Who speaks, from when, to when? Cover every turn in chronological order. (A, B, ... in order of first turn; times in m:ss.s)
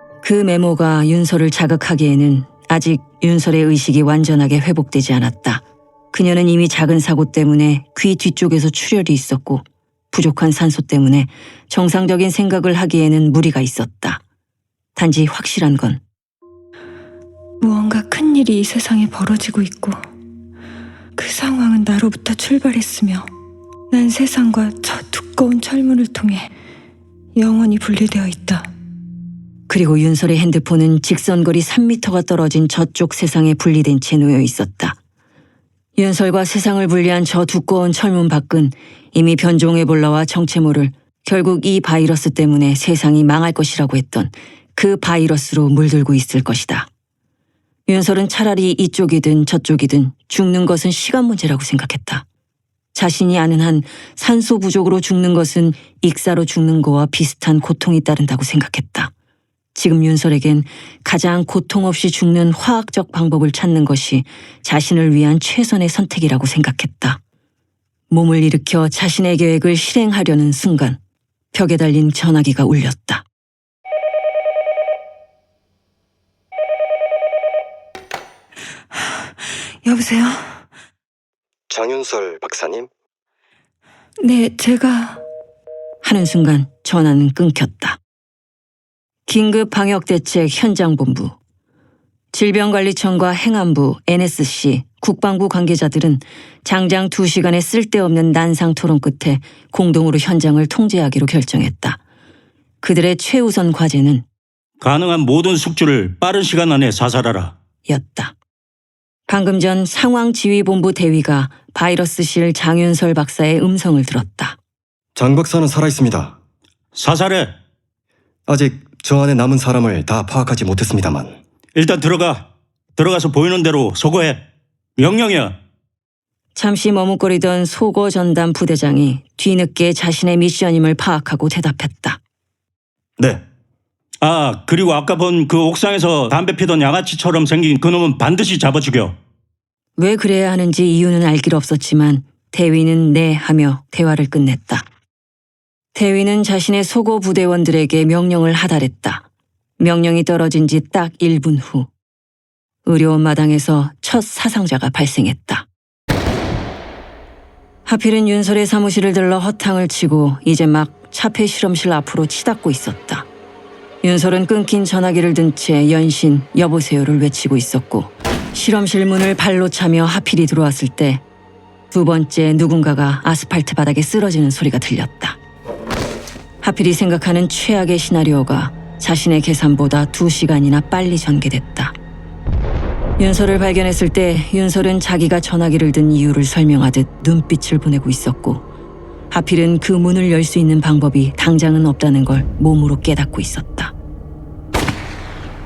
0:00.2-0:14.2 A
0:15.0-0:16.0 A
0:17.6-0:20.0 B
0:21.2-0:23.3 B
0:23.9-0:26.5 B
0:27.4-0:28.7 B
0:29.7-0:35.0 A
0:36.0-0:46.9 A
0:47.9-0:52.2 A
0:52.9-0:59.1 A
0:59.7-1:07.2 A
1:08.1-1:11.0 A
1:11.5-1:13.2 A
1:19.8-1:20.5 B
1:21.7-1:22.9 C
1:24.2-1:25.2 B
1:26.0-1:28.0 A
1:29.3-1:31.4 A
1:32.3-1:42.0 A
1:42.8-1:44.2 A
1:44.8-1:47.5 D
1:47.9-1:48.3 A
1:49.3-1:54.6 A
1:55.1-1:56.4 C
1:56.9-1:57.5 D
1:58.5-2:01.4 C
2:01.7-2:04.4 D
2:05.0-2:05.6 D
2:06.5-2:12.2 A
2:14.2-2:19.2 D
2:20.0-2:24.8 A
2:25.9-2:29.2 A
2:29.8-2:31.9 A
2:32.8-2:35.6 A
2:37.8-2:43.3 A
2:44.0-2:51.2 A
2:51.9-2:55.4 A
2:56.6-3:01.9 A
3:03.2-3:08.6 A
3:09.3-3:13.9 A